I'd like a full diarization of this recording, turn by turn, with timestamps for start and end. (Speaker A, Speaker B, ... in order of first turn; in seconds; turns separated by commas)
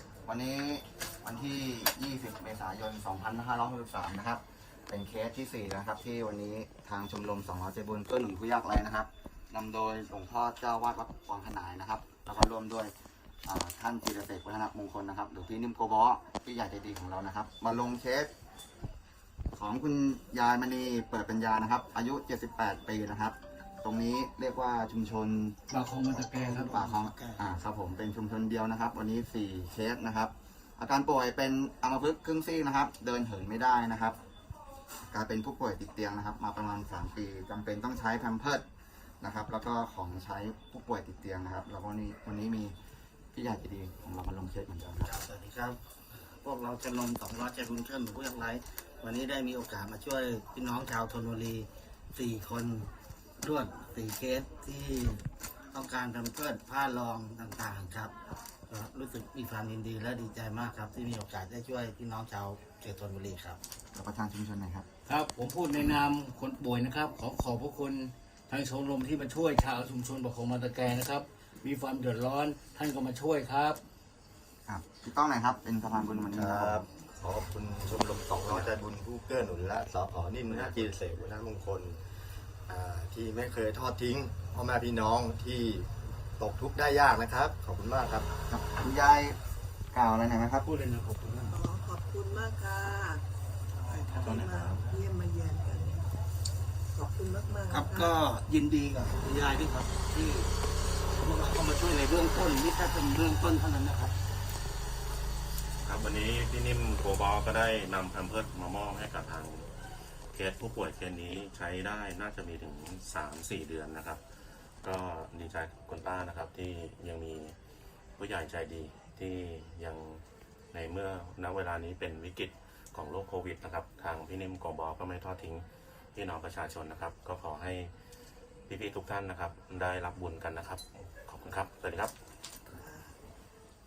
Speaker A: 0.3-12.9, Speaker A: 13.4-18.3, Speaker A: 19.5-25.6, Speaker B: 25.7-27.0, Speaker C: 26.1-26.9, Speaker A: 26.1-34.2, Speaker A: 35.1-38.7, Speaker A: 39.2-42.8, Speaker A: 43.3-45.1, Speaker C: 45.0-45.8, Speaker C: 46.4-52.9, Speaker C: 53.4-58.1, Speaker C: 58.7-63.6, Speaker A: 63.9-64.9, Speaker B: 65.1-73.8, Speaker C: 72.5-73.3, Speaker A: 74.7-76.9, Speaker D: 76.3-82.0, Speaker D: 82.7-85.9, Speaker D: 86.4-88.3, Speaker A: 88.5-89.4, Speaker A: 89.9-90.7, Speaker B: 90.7-91.6, Speaker E: 91.5-93.2, Speaker E: 94.0-96.0, Speaker F: 94.2-94.8, Speaker E: 97.0-98.1, Speaker C: 97.7-100.5, Speaker C: 101.2-104.1, Speaker F: 105.8-109.7, Speaker F: 110.3-114.2, Speaker F: 114.8-117.6, Speaker F: 118.2-120.2, Speaker F: 120.7-127.9, Speaker F: 128.7-132.1, Speaker E: 132.8-133.1